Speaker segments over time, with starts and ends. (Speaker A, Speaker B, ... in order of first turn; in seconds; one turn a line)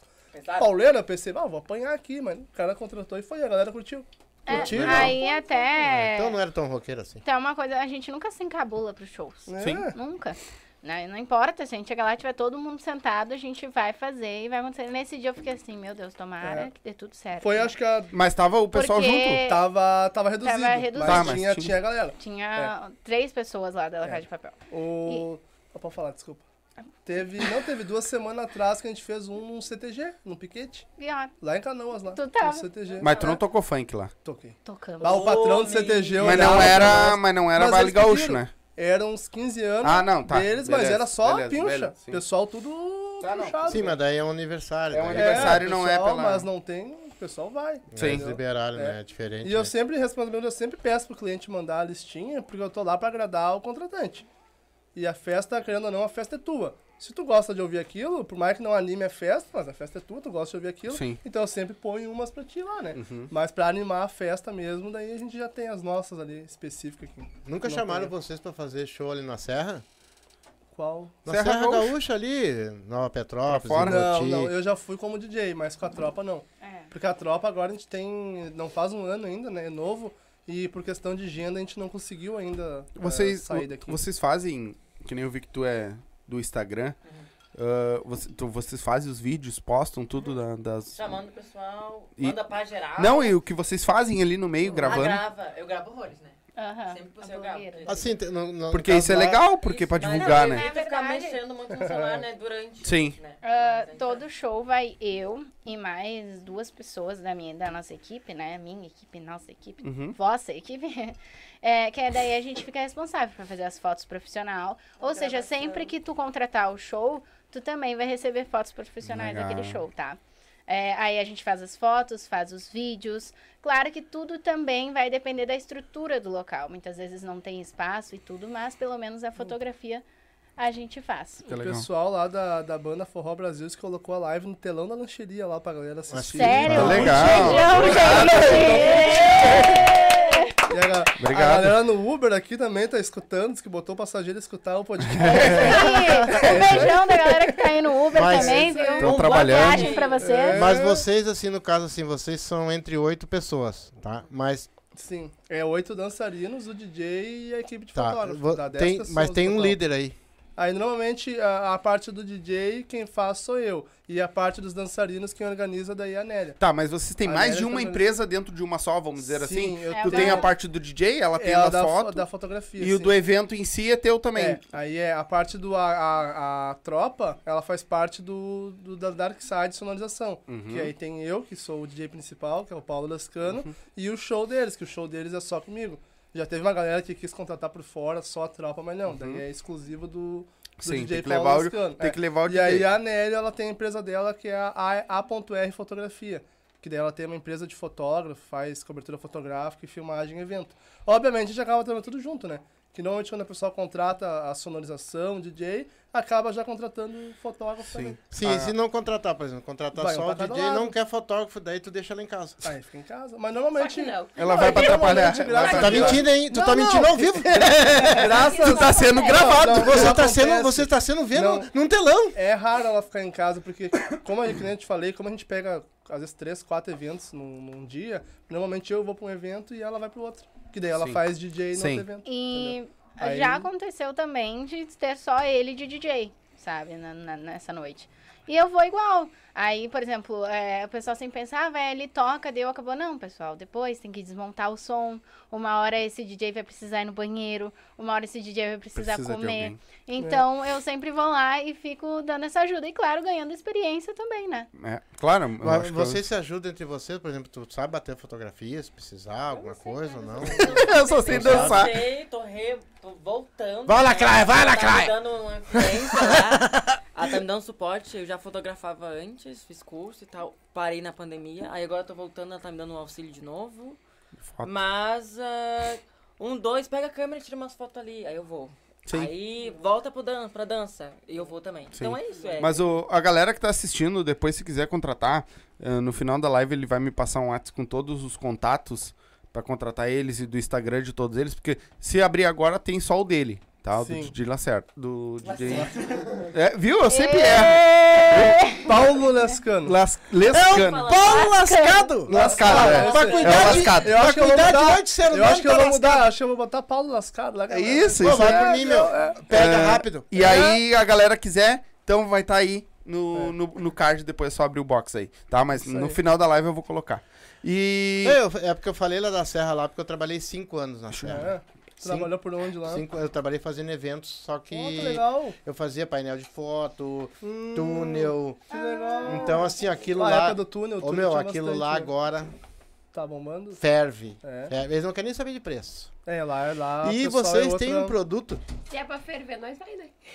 Speaker A: 0.3-0.7
Speaker B: 0.6-5.2
Speaker C: 4.5-6.4
Speaker D: 4.5-5.2
Speaker D: 5.8-7.2
Speaker C: 7.2-17.7
Speaker B: 9.5-9.9
Speaker E: 9.6-9.9
Speaker B: 16.4-16.7
Speaker B: 17.4-18.1
Speaker E: 18.1-19.4
Speaker C: 18.7-19.7
Speaker B: 19.4-22.7
Speaker C: 20.4-21.4
Speaker E: 21.0-21.8
Speaker C: 22.2-25.3
Speaker B: 24.0-26.4
Speaker B: 27.1-30.9
Speaker C: 27.2-27.5
Speaker C: 31.0-31.3
Speaker B: 31.4-33.4
Speaker C: 32.0-32.7
Speaker E: 33.0-34.1
Speaker B: 34.2-44.0
Speaker C: 34.6-35.4
Speaker A: 35.0-37.0
Speaker E: 36.2-38.5
Speaker E: 39.8-42.2
Speaker E: 43.2-43.9
Speaker D: 43.6-45.7
Speaker E: 44.9-46.5
Speaker B: 45.1-54.3
Speaker D: 47.9-49.7
Speaker E: 48.0-48.2
Speaker B: 55.0-68.1
Speaker E: 60.9-61.2
Speaker E: 62.9-63.3
Speaker D: 67.5-69.8
Speaker B: 70.7-71.2
Speaker D: 71.2-74.5
Speaker E: 71.3-72.0
Speaker E: 73.5-74.1
Speaker B: 73.8-84.0
Speaker C: 76.6-76.9
Speaker E: 83.0-87.0
Speaker E: 87.5-91.0
Speaker A: 91.0-93.3
Speaker E: 93.0-95.2
Speaker A: 94.6-96.4
Speaker C: 96.6-98.1
Speaker A: 96.9-98.1
Speaker D: 97.9-99.5
Speaker E: 98.7-100.7
Speaker A: 99.6-104.2
Speaker C: 100.1-101.4
Speaker B: 101.9-102.2
Speaker E: 102.8-103.2
Speaker C: 103.4-130.0
Speaker E: 109.8-110.2
Speaker F: 115.0-115.9
Speaker E: 119.0-119.8
Speaker C: 130.6-131.4
Speaker B: 131.4-139.7
Speaker E: 131.4-131.9
Speaker D: 136.1-138.2
Speaker C: 136.3-140.7
Speaker E: 136.7-139.8
Speaker A: 137.9-140.5
Speaker B: 140.7-149.1
Speaker E: 141.2-141.8
Speaker E: 145.0-146.7
Speaker C: 145.4-150.8
Speaker D: 146.5-146.9
Speaker D: 148.1-149.3
Speaker A: 148.9-150.4
Speaker E: 149.0-150.1
Speaker B: 150.2-151.1
Speaker D: 150.5-154.7
Speaker B: 154.9-159.8
Speaker D: 157.9-160.2
Speaker B: 160.6-166.6
Speaker E: 166.6-172.3
Speaker B: 167.3-168.0
Speaker B: 169.2-170.5
Speaker C: 169.9-170.5
Speaker B: 171.4-173.2
Speaker E: 172.8-174.6
Speaker B: 174.4-208.2
Speaker E: 180.5-180.9
Speaker E: 189.1-189.4
Speaker E: 190.8-192.9
Speaker E: 207.9-208.7
Speaker D: 208.3-212.7
Speaker B: 209.9-210.9
Speaker B: 212.6-221.7
Speaker F: 213.7-216.1
Speaker E: 214.4-216.3
Speaker D: 215.6-218.0
Speaker E: 217.5-220.2
Speaker F: 218.3-219.6
Speaker D: 219.3-222.4
Speaker B: 222.3-233.7
Speaker E: 231.7-232.1
Speaker C: 232.2-254.7
Speaker E: 248.9-249.8
Speaker B: 250.2-250.4
Speaker E: 254.7-256.2
Speaker D: 255.6-261.9
Speaker F: 259.5-261.3
Speaker A: 260.4-274.0
Speaker E: 260.7-262.1
Speaker D: 263.9-265.1
Speaker D: 265.7-267.0
Speaker A: 274.6-282.9
Speaker E: 281.9-295.9
Speaker B: 294.0-294.3
Speaker A: 295.4-296.5
Speaker E: 296.5-298.6
Speaker C: 297.1-298.9
Speaker A: 297.6-298.7
Speaker B: 298.8-299.9
Speaker E: 299.9-301.1
Speaker D: 300.5-306.3
Speaker A: 300.7-301.7
Speaker C: 301.2-302.1
Speaker E: 302.3-304.2
Speaker B: 302.3-309.5
Speaker A: 302.5-304.5
Speaker E: 307.7-308.9
Speaker D: 308.2-310.4
Speaker E: 309.5-318.4
Speaker B: 310.4-310.8
Speaker B: 315.8-316.2
Speaker D: 318.2-328.7
Speaker E: 321.1-321.4
Speaker B: 321.3-323.0
Speaker B: 324.7-325.6
Speaker B: 327.4-329.6
Speaker C: 328.7-329.7
Speaker D: 329.2-332.5
Speaker B: 330.2-332.1
Speaker B: 333.1-333.8
Speaker D: 333.8-336.1
Speaker B: 334.4-334.7
Speaker B: 336.3-338.1
Speaker D: 337.0-338.6
Speaker F: 338.9-340.2